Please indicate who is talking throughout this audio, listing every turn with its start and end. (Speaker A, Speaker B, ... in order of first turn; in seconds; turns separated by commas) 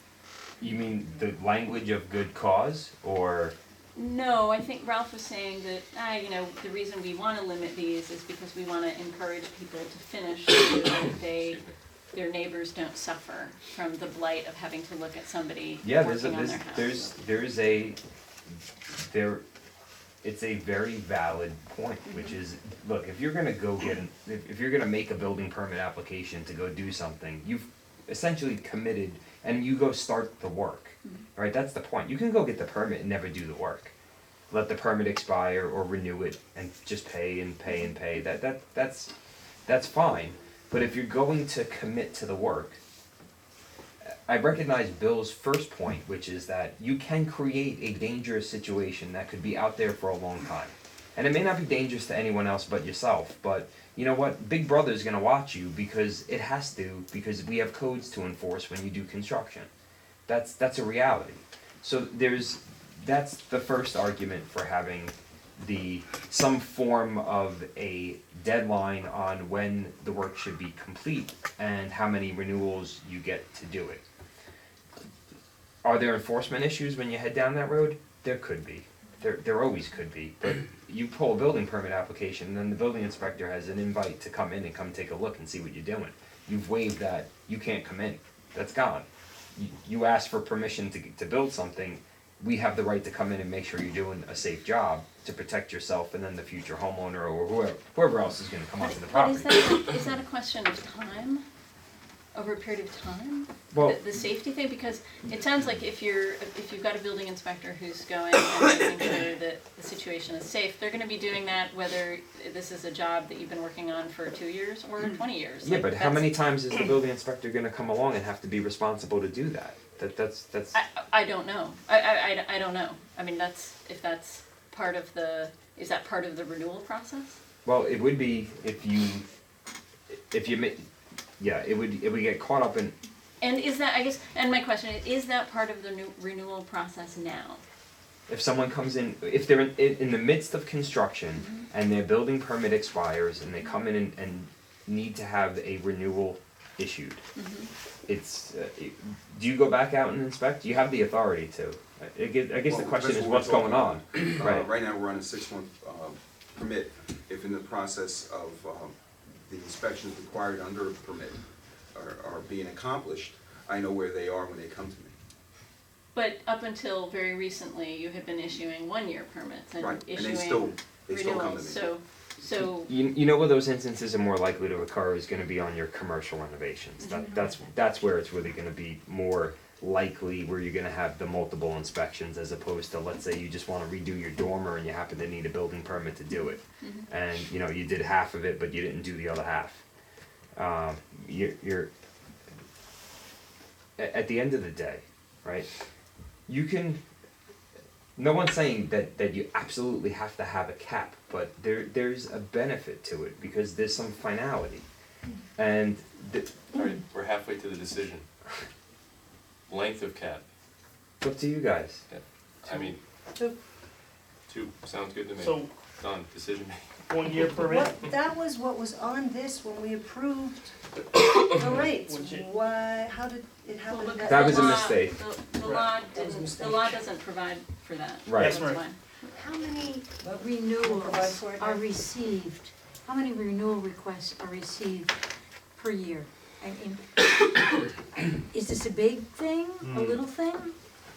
Speaker A: 0.6-3.5, Speaker B: 3.9-11.6, Speaker C: 11.3-11.7, Speaker B: 12.1-17.1, Speaker A: 15.8-18.0, Speaker A: 18.9-19.4, Speaker A: 20.2-33.9, Speaker B: 22.1-22.4, Speaker A: 34.5-39.1, Speaker A: 39.6-42.8, Speaker A: 44.0-59.7, Speaker A: 60.3-74.0, Speaker A: 75.8-99.9, Speaker B: 98.8-101.4, Speaker B: 102.3-116.3, Speaker A: 103.7-104.0, Speaker A: 115.6-120.7, Speaker B: 120.7-127.4, Speaker A: 127.6-129.2, Speaker A: 130.3-130.8, Speaker A: 131.4-132.9, Speaker B: 133.4-137.6, Speaker A: 138.3-147.2, Speaker B: 141.4-141.7, Speaker B: 147.3-147.7, Speaker A: 148.1-154.7, Speaker D: 152.7-161.4, Speaker D: 161.9-165.1, Speaker B: 166.1-172.9, Speaker D: 169.8-171.9, Speaker A: 172.8-189.8, Speaker B: 177.0-177.5, Speaker B: 186.8-187.1, Speaker A: 190.5-191.9, Speaker A: 194.0-195.7, Speaker A: 196.5-197.0, Speaker A: 198.2-204.8, Speaker A: 205.6-206.6, Speaker C: 206.8-208.2, Speaker C: 209.7-210.4, Speaker A: 211.2-212.0, Speaker C: 212.1-213.0, Speaker C: 214.5-216.8, Speaker E: 215.4-215.7, Speaker E: 217.1-218.0, Speaker F: 217.5-224.9, Speaker E: 222.1-222.5, Speaker B: 223.9-229.0, Speaker A: 224.3-225.1, Speaker E: 225.6-225.9, Speaker F: 226.1-227.0, Speaker A: 228.2-228.6, Speaker E: 228.4-228.8, Speaker F: 229.2-231.9, Speaker G: 230.4-235.1, Speaker G: 235.7-240.7